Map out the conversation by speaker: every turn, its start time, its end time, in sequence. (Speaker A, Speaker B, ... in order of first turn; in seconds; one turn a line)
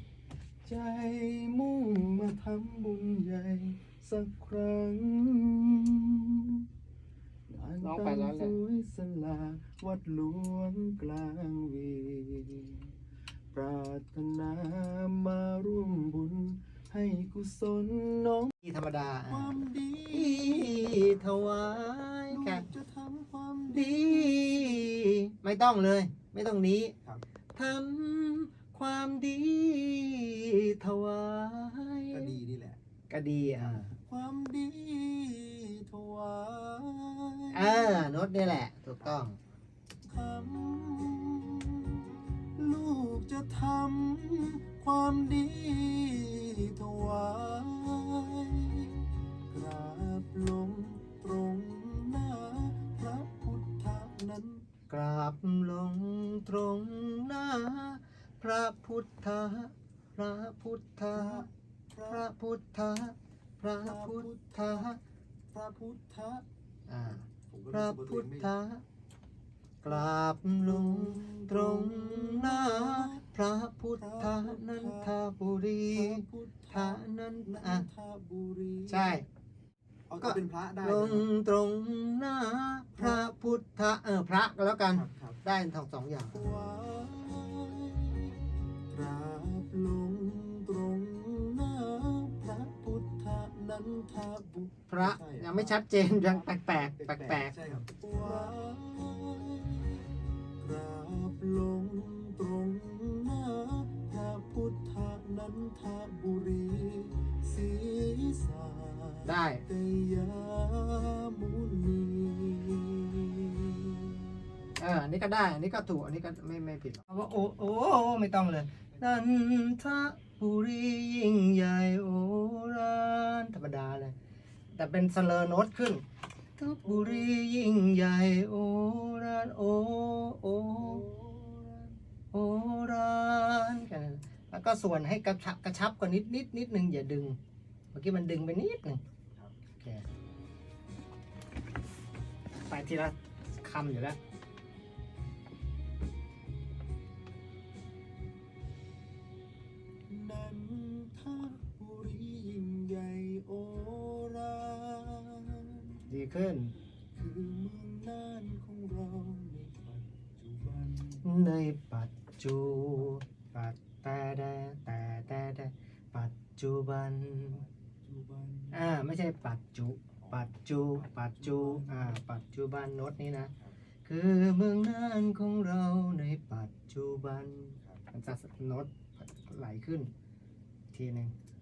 Speaker A: 0.7-6.7
Speaker A: 7.5-12.9
Speaker B: 7.8-8.6
Speaker A: 13.5-18.5
Speaker B: 18.6-22.7
Speaker A: 19.3-21.3
Speaker A: 22.3-24.9
Speaker B: 23.7-26.9
Speaker B: 27.6-32.4
Speaker A: 32.1-32.8
Speaker B: 33.1-33.9
Speaker A: 34.0-38.1
Speaker B: 37.5-39.4
Speaker A: 40.0-54.7
Speaker B: 54.9-61.5
Speaker A: 61.1-62.3
Speaker B: 62.1-65.0
Speaker A: 63.8-64.9
Speaker A: 65.5-66.5
Speaker B: 66.9-68.8
Speaker A: 67.5-68.5
Speaker B: 69.8-77.9
Speaker A: 69.8-73.2
Speaker A: 74.0-75.2
Speaker A: 75.9-79.2
Speaker B: 78.9-79.3
Speaker A: 80.1-81.3
Speaker B: 80.2-86.5
Speaker A: 82.9-83.4
Speaker A: 84.9-85.4
Speaker A: 86.3-114.3
Speaker B: 94.9-97.7
Speaker B: 109.2-109.6
Speaker B: 114.8-124.2
Speaker B: 124.7-126.0
Speaker B: 126.6-131.1
Speaker A: 126.8-127.3
Speaker A: 130.8-132.0
Speaker B: 132.3-137.4
Speaker B: 137.9-139.0
Speaker B: 139.8-140.1
Speaker B: 142.7-144.2
Speaker A: 150.1-156.1
Speaker B: 156.1-156.7
Speaker A: 157.2-161.3
Speaker B: 161.2-167.6
Speaker A: 167.5-168.9
Speaker B: 168.7-173.5
Speaker A: 170.2-170.5
Speaker A: 171.4-172.2
Speaker B: 174.0-180.1
Speaker B: 180.9-181.3